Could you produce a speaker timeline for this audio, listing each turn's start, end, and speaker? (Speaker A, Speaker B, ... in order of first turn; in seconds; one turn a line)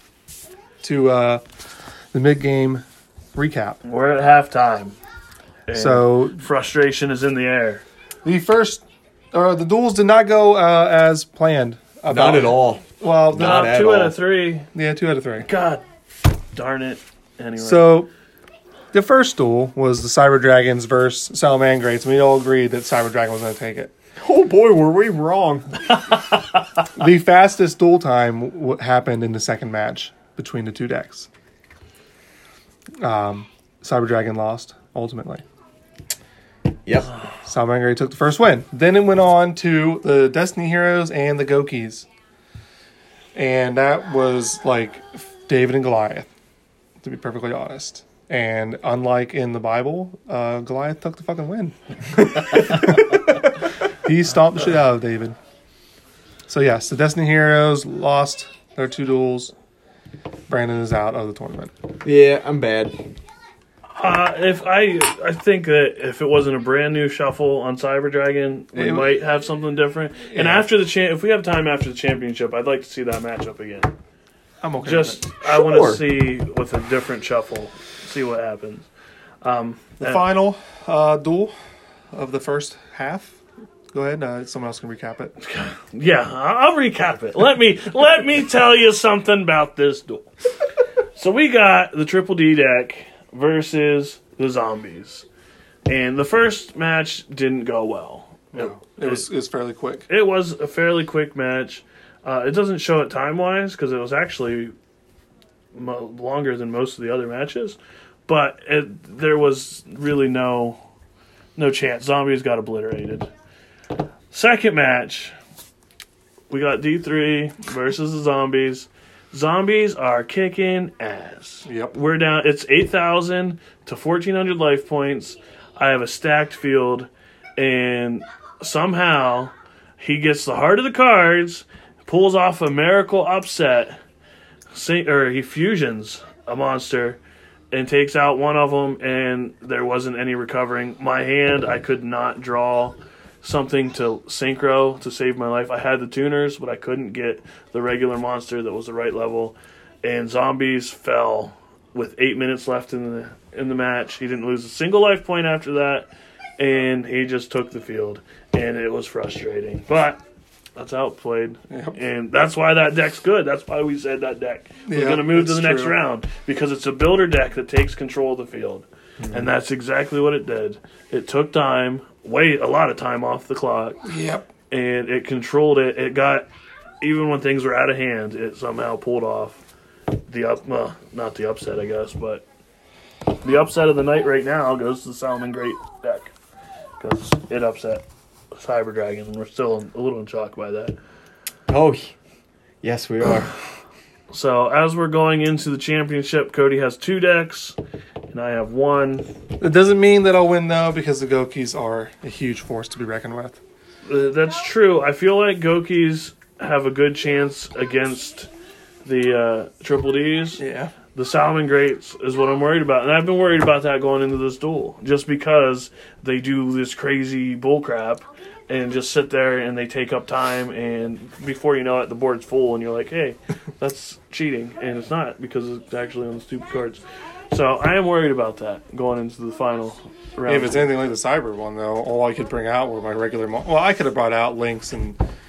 Speaker A: 0.8-1.4
Speaker A: 2.1-2.8
Speaker A: 3.3-3.8
Speaker B: 3.8-5.0
Speaker B: 5.7-7.8
Speaker A: 5.7-6.4
Speaker A: 8.2-13.8
Speaker C: 12.1-14.2
Speaker B: 13.3-14.7
Speaker A: 14.7-15.5
Speaker B: 15.4-15.8
Speaker B: 16.5-18.0
Speaker A: 17.6-18.1
Speaker A: 18.9-23.9
Speaker C: 24.2-25.8
Speaker A: 27.0-31.3
Speaker A: 33.0-35.4
Speaker C: 36.9-37.1
Speaker A: 37.5-42.1
Speaker A: 43.3-46.3
Speaker A: 47.0-53.1
Speaker A: 54.0-55.4
Speaker A: 56.5-59.5
Speaker A: 60.5-61.7
Speaker C: 62.0-63.0
Speaker B: 63.9-73.9
Speaker A: 68.7-69.2
Speaker A: 70.3-70.7
Speaker A: 74.6-75.4
Speaker B: 74.8-78.9
Speaker C: 75.4-76.0
Speaker B: 79.4-80.2
Speaker A: 80.0-81.5
Speaker A: 82.1-83.4
Speaker A: 83.9-85.3
Speaker B: 85.4-90.3
Speaker B: 91.1-95.3
Speaker B: 95.9-99.3
Speaker A: 98.5-100.0
Speaker B: 100.1-104.7
Speaker B: 105.7-110.8
Speaker B: 111.5-113.3
Speaker B: 114.3-115.3
Speaker B: 116.5-134.0
Speaker A: 121.7-121.9
Speaker B: 134.7-137.2
Speaker B: 137.7-160.2
Speaker B: 160.8-174.1
Speaker A: 161.7-162.0
Speaker A: 164.9-166.0
Speaker C: 169.2-169.5
Speaker A: 174.1-174.5
Speaker B: 174.7-176.5
Speaker B: 177.0-179.6
Speaker B: 180.3-182.4
Speaker B: 183.4-186.3
Speaker B: 187.0-188.0
Speaker B: 188.6-190.9
Speaker C: 191.7-192.2
Speaker C: 192.8-193.5
Speaker B: 194.3-197.8
Speaker B: 198.3-199.3
Speaker A: 199.6-203.6
Speaker B: 204.0-208.5
Speaker B: 209.0-210.6
Speaker A: 210.6-210.9
Speaker B: 211.1-230.9
Speaker A: 230.4-235.2